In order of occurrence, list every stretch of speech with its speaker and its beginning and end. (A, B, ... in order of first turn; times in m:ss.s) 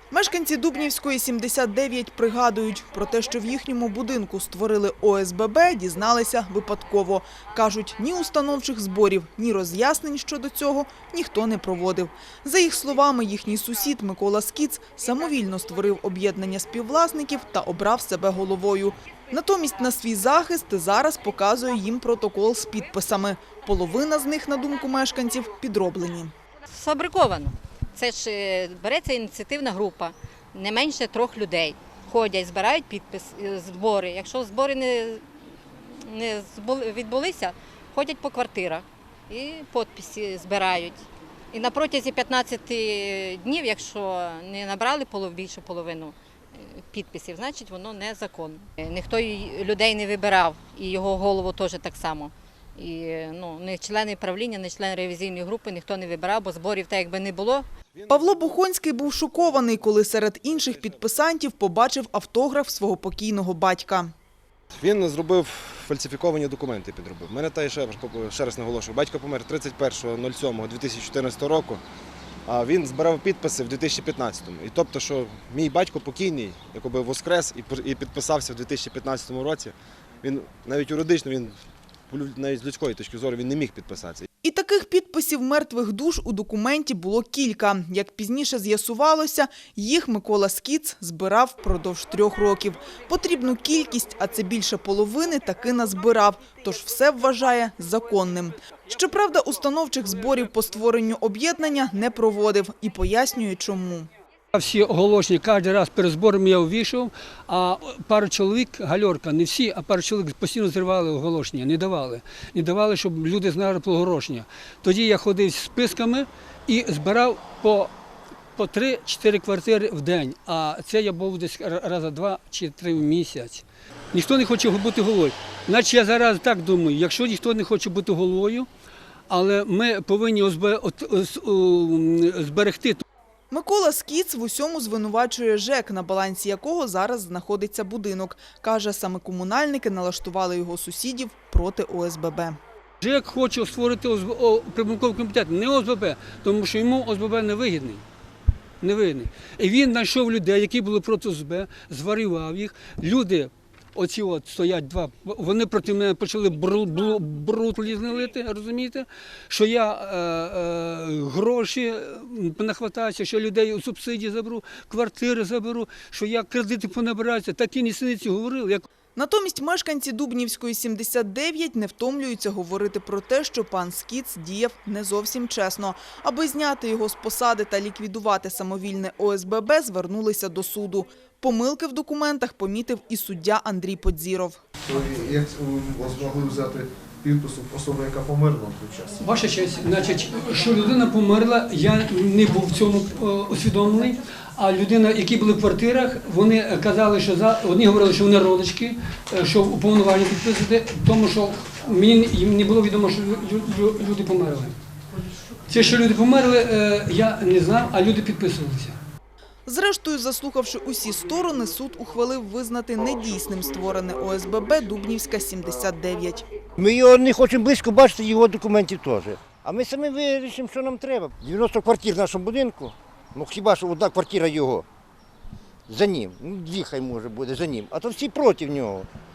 0:00.1-0:26.3 A
0:26.7-0:35.2 B
0:36.0-0:57.7 B
0:58.0-0:58.5 C
0:58.1-1:04.1 A
0:59.2-0:59.8 C
1:00.6-1:01.1 C
1:04.8-1:11.8 C
1:12.4-1:21.6 C
1:22.1-1:24.2 C
1:24.4-1:44.1 A
1:44.5-1:57.9 D
1:58.6-2:08.7 D
2:09.3-2:13.0 D
2:13.5-2:22.6 A
2:23.0-2:28.0 D
2:28.8-2:48.8 D
2:49.2-3:04.6 A
3:04.8-3:09.2 E
3:09.2-3:24.7 D
3:25.7-3:29.0 D
3:29.6-3:36.4 A
3:36.8-3:44.8 F
3:45.9-3:49.1 F